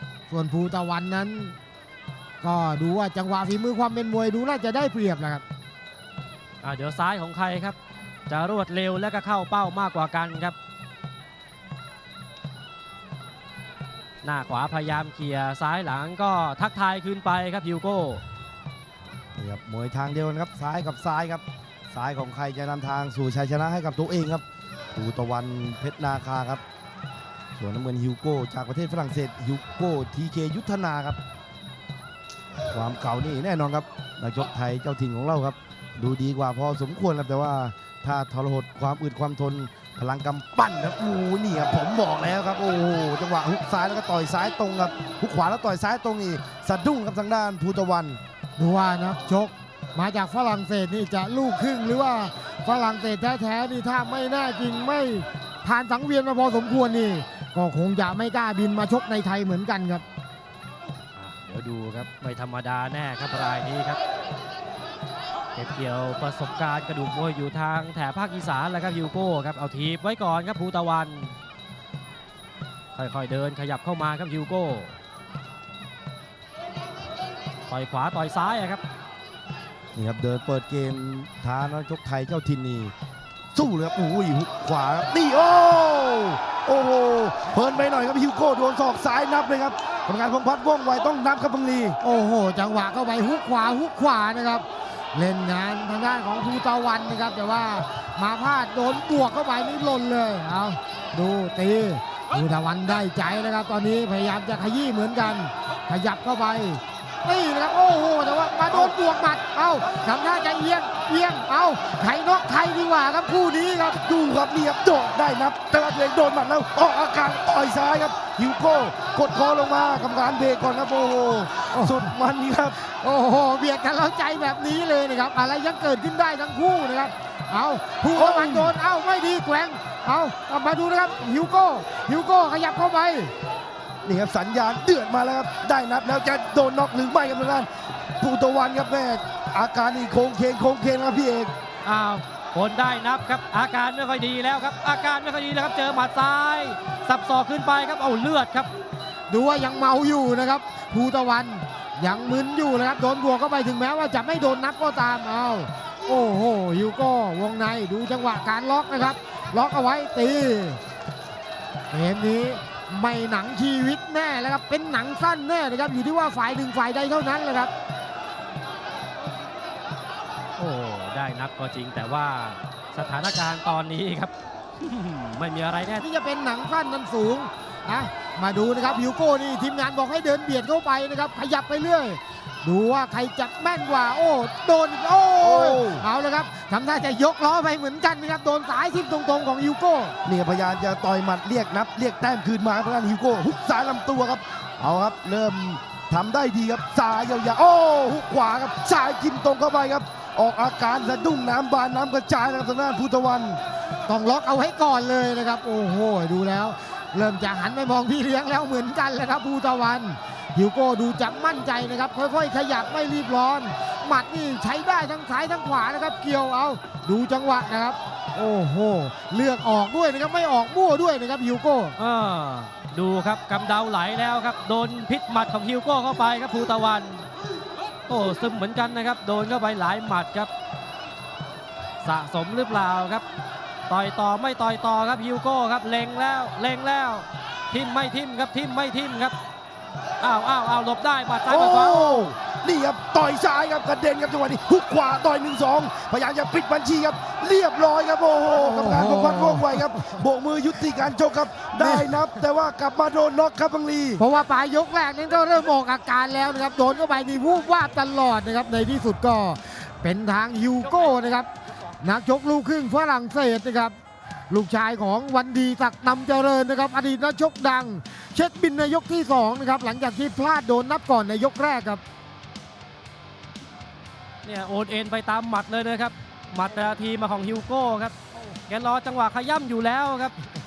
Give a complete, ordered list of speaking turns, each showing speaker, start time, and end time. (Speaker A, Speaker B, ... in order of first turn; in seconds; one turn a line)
Speaker A: 0.3-1.6
Speaker A: 2.4-5.4
Speaker B: 6.6-7.8
Speaker B: 8.3-10.6
Speaker B: 14.2-18.2
Speaker C: 19.4-26.6
Speaker C: 27.6-31.2
Speaker C: 32.7-48.2
Speaker A: 48.6-60.0
Speaker B: 61.2-64.0
Speaker B: 65.6-71.3
Speaker B: 73.0-74.9
Speaker B: 77.7-78.8
Speaker C: 80.0-82.9
Speaker C: 83.5-92.0
Speaker A: 92.0-114.0
Speaker C: 108.7-109.0
Speaker C: 114.0-122.8
Speaker A: 121.7-122.1
Speaker A: 122.8-133.3
Speaker C: 128.1-128.8
Speaker C: 134.0-141.5
Speaker B: 141.8-148.7
Speaker A: 149.3-160.8
Speaker A: 161.9-167.7
Speaker B: 170.6-176.0
Speaker A: 176.0-190.2
Speaker C: 185.4-186.1
Speaker C: 190.2-203.6
Speaker A: 204.1-222.0
Speaker B: 222.0-227.3
Speaker B: 228.1-230.5
Speaker B: 232.0-233.2
Speaker B: 233.9-239.4
Speaker B: 240.2-242.3
Speaker C: 241.5-254.2
Speaker A: 248.6-249.8
Speaker A: 251.8-252.2
Speaker A: 254.2-261.5
Speaker A: 262.0-263.9
Speaker A: 264.5-272.0
Speaker B: 274.4-280.4